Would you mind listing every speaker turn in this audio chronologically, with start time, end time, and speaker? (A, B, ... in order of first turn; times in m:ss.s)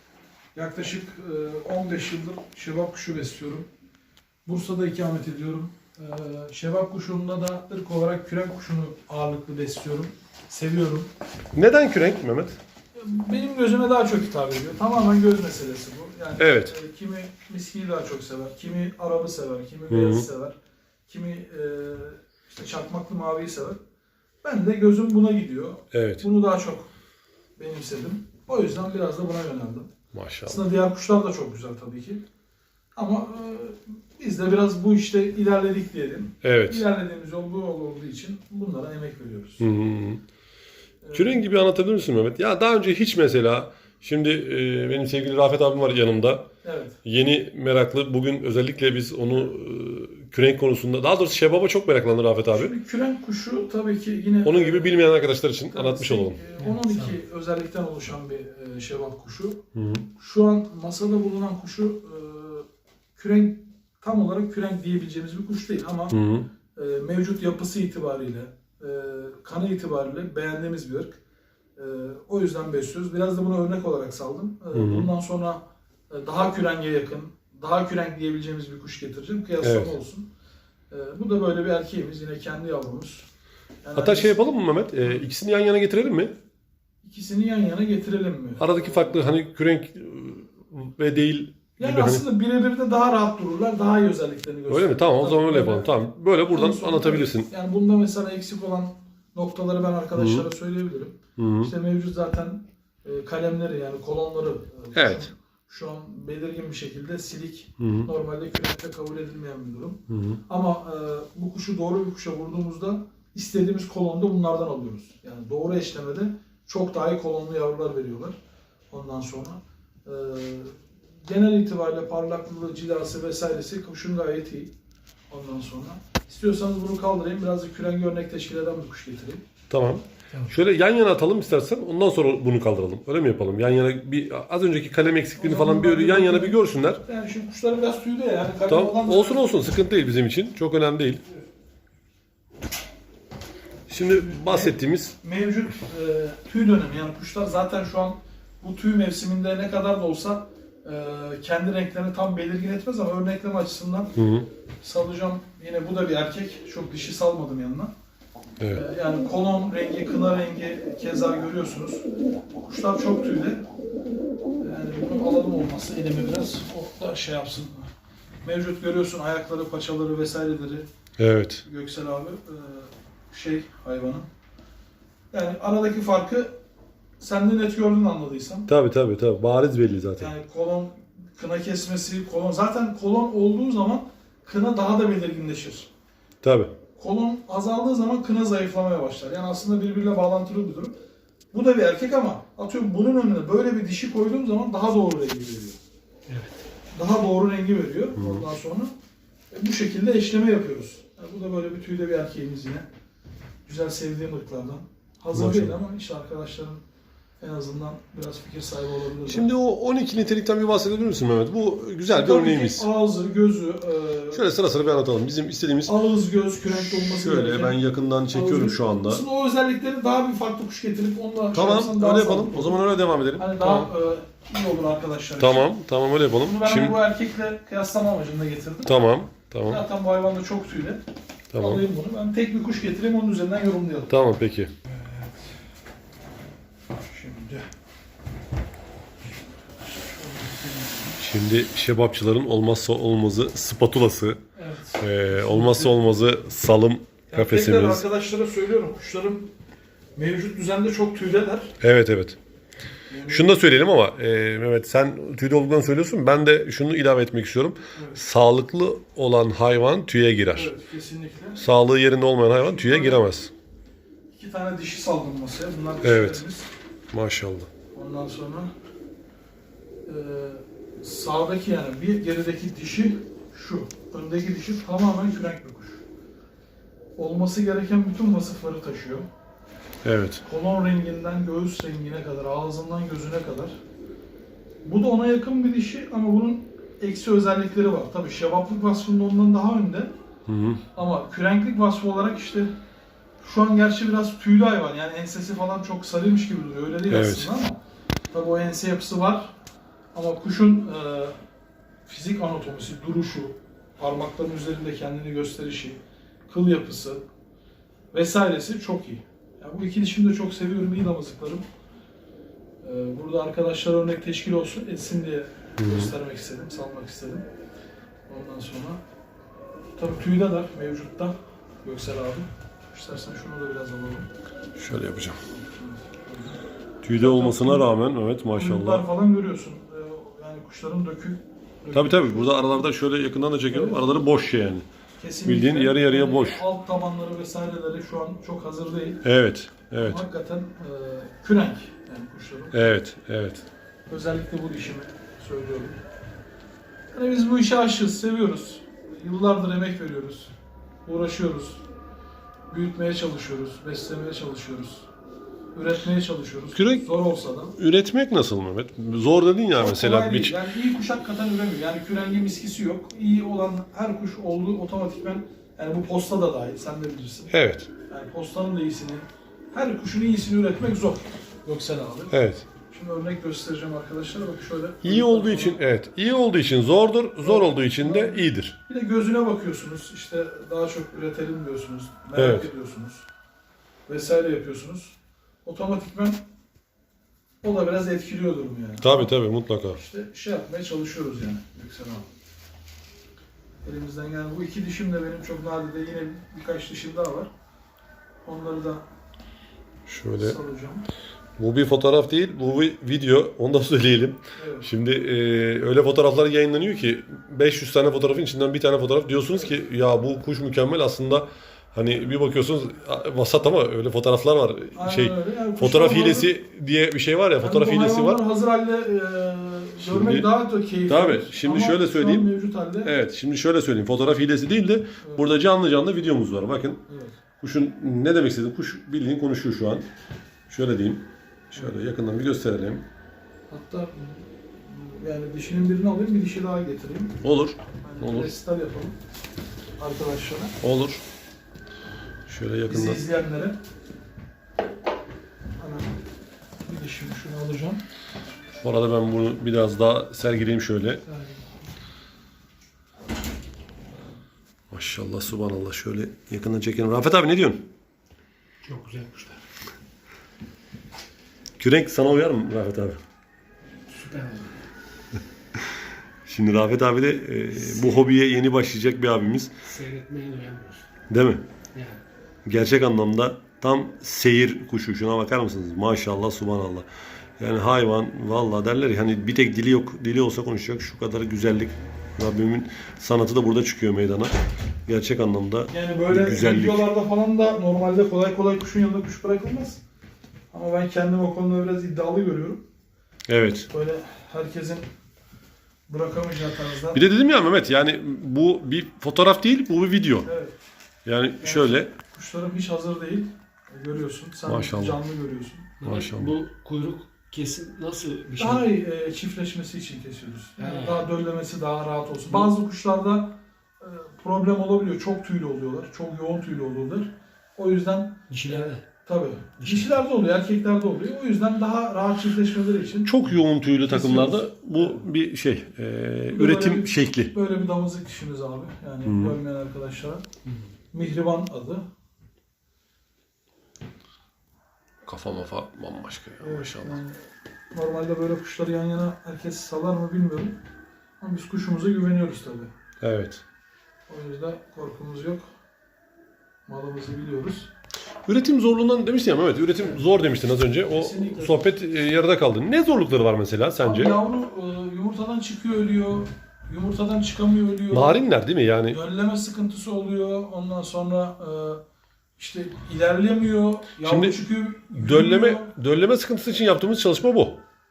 0:00.5-0:03.7 A
0:04.4-0:11.1 A
0:11.5-0:12.6 B
0:12.9-0:20.5 A
0:16.4-0:16.8 B
0:19.9-0:20.3 B
0:21.1-0:23.8 A
0:24.4-0:26.8 A
0:25.9-0:26.2 B
0:27.6-0:29.9 A
0:30.1-0:30.6 B
0:30.4-0:32.2 A
0:33.0-0:39.6 A
0:36.4-0:36.8 B
0:39.6-0:40.2 B
0:41.0-0:41.4 A
0:41.1-0:46.5 B
0:46.6-0:46.9 A
0:47.0-0:52.8 B
0:52.5-0:55.0 A
0:54.4-0:56.5 B
0:55.7-0:59.6 A
0:59.7-1:00.1 B
1:00.1-1:06.2 A
1:06.1-1:06.5 B
1:06.7-1:11.2 A
1:11.8-1:20.3 A
1:14.7-1:15.1 B
1:19.6-1:20.0 B
1:20.9-1:23.2 A
1:23.8-1:24.4 A
1:23.9-1:26.3 B
1:27.0-1:29.2 A
1:28.6-1:32.2 B
1:31.8-1:41.1 A
1:34.7-1:37.5 B
1:40.2-1:40.4 B
1:41.4-1:41.7 B
1:41.6-1:58.3 A
1:44.9-1:45.3 B
1:47.8-1:48.1 B
1:50.1-1:50.4 B
1:58.9-2:04.7 A
2:05.3-2:09.4 A
2:09.7-2:17.0 B
2:15.4-2:19.5 A
2:18.7-2:21.2 B
2:23.9-2:25.1 B
2:24.4-2:34.1 A
2:34.2-2:34.5 B
2:34.8-2:37.9 A
2:38.6-2:38.8 B
2:38.7-2:42.0 A
2:42.7-2:43.6 A
2:44.6-2:47.9 A
2:48.4-2:50.8 A
2:51.2-2:51.6 B
2:51.6-2:54.3 A
2:55.3-2:56.5 A
2:57.2-2:58.7 A
2:58.7-3:00.3 B
3:00.2-3:05.9 A
3:06.4-3:06.8 B
3:07.0-3:10.9 A
3:11.5-3:15.8 A
3:16.3-3:16.6 C
3:16.9-3:18.9 A
3:18.2-3:18.4 B
3:19.5-3:22.9 A
3:23.6-3:26.8 A
3:25.3-3:25.8 B
3:27.4-3:29.4 A
3:29.2-3:32.9 B
3:32.1-3:34.4 A
3:34.3-3:36.0 B
3:35.8-3:37.8 A
3:36.7-3:39.2 B
3:38.3-3:42.8 A
3:41.5-3:43.9 B
3:43.4-3:45.6 A
3:45.4-3:47.0 B
3:46.4-3:48.9 A
3:48.8-3:49.8 B
3:49.7-3:51.0 A
3:51.5-3:51.8 B
3:51.6-3:54.1 A
3:54.1-3:54.7 B
3:54.8-3:55.5 A
3:57.1-3:57.7 A
3:59.9-4:01.2 A
4:01.2-4:04.4 B
4:04.5-4:05.9 A
4:05.0-4:08.0 B
4:07.3-4:09.5 A
4:10.2-4:11.7 A
4:11.8-4:12.4 B
4:13.1-4:13.6 A
4:13.2-4:20.7 B
4:20.5-4:21.6 A
4:21.6-4:23.5 B
4:22.6-4:23.2 A
4:24.3-4:26.7 A
4:26.0-4:26.4 B
4:27.1-4:27.7 B
4:27.9-4:28.7 A
4:30.0-4:36.0 A
4:37.2-4:39.3 A
4:40.0-4:40.4 B
4:40.4-4:43.8 A
4:44.8-4:50.1 A
4:50.5-4:50.8 B
4:50.9-4:52.7 A
4:53.4-4:57.8 A
4:57.1-4:57.5 B
4:58.3-4:59.5 A
5:00.1-5:01.4 A
5:02.0-5:07.2 A
5:08.1-5:11.6 A
5:12.8-5:17.4 A
5:15.8-5:16.1 B
5:18.3-5:19.0 A
5:20.0-5:24.3 A
5:24.8-5:25.4 B
5:25.5-5:26.6 A
5:27.0-5:29.0 B
5:27.1-5:27.8 A
5:28.5-5:32.8 A
5:31.9-5:34.8 B
5:33.7-5:34.0 A
5:35.2-5:39.2 A
5:35.4-5:36.6 B
5:39.2-5:40.2 B
5:40.0-5:43.0 A
5:42.7-5:43.6 B
5:44.1-5:46.0 A
5:47.1-5:50.5 A
5:51.0-5:51.8 A
5:52.7-5:55.0 A
5:55.7-5:57.7 A
5:56.7-5:57.1 B
5:57.8-6:00.6 B
5:59.7-6:07.5 A
6:07.5-6:07.9 B
6:08.0-6:12.3 A
6:12.3-6:12.7 B
6:12.8-6:15.8 A
6:15.0-6:18.8 B
6:17.4-6:23.2 A
6:22.3-6:22.7 B
6:24.1-6:26.4 A
6:27.6-6:29.3 A
6:29.0-6:30.0 B
6:29.9-6:32.3 A
6:33.8-6:37.5 A
6:38.4-6:39.0 A
6:40.1-6:40.6 B
6:40.4-6:41.0 A
6:41.6-6:58.4 B
6:44.6-6:44.8 A
6:54.9-6:56.5 A
6:57.6-7:03.1 A
7:00.0-7:00.5 B
7:01.0-7:02.5 B
7:03.0-7:10.1 B
7:05.2-7:05.5 A
7:07.1-7:07.4 A
7:10.7-7:13.1 B
7:13.7-7:17.4 A
7:17.4-7:18.5 B
7:17.9-7:19.2 A
7:20.0-7:20.8 A
7:20.8-7:21.2 B
7:22.5-7:23.2 B
7:22.9-7:23.8 A
7:25.8-7:26.2 A
7:26.8-7:28.0 A
7:28.8-7:31.2 B
7:31.2-7:31.6 A
7:34.9-7:37.9 B
7:38.8-7:39.6 C
7:41.8-7:43.2 B
7:44.1-7:44.8 C
7:46.4-7:49.8 B
7:49.9-7:51.0 C
7:51.3-7:51.6 B
7:51.9-7:52.2 C
7:52.6-7:57.1 B
7:57.6-8:04.5 B
8:05.0-8:07.0 B
8:05.9-8:10.0 A
8:10.7-8:12.8 A
8:13.5-8:13.9 B
8:13.9-8:15.1 A
8:16.1-8:17.2 A
8:17.1-8:20.5 B
8:20.4-8:20.8 A
8:21.2-8:22.1 B
8:21.6-8:26.0 A
8:24.6-8:25.2 B
8:26.0-8:26.6 B
8:26.0-8:28.8 C
8:28.5-8:43.3 A
8:30.8-8:31.2 C
8:38.5-8:39.0 C
8:39.8-8:40.2 C
8:43.2-8:47.5 B
8:44.1-8:45.2 A
8:46.5-8:50.4 A
8:49.2-8:49.6 B
8:51.1-8:52.0 A
8:55.2-8:57.2 B
8:56.6-8:57.4 A
8:57.9-9:00.8 A
9:01.4-9:02.9 A
9:03.2-9:03.6 B
9:04.3-9:05.6 A
9:06.8-9:07.9 A
9:08.4-9:14.4 B
9:11.2-9:11.8 A
9:14.0-9:18.4 A
9:18.1-9:19.2 B
9:19.1-9:22.0 A
9:22.6-9:25.9 A
9:24.2-9:24.6 B
9:25.1-9:27.8 B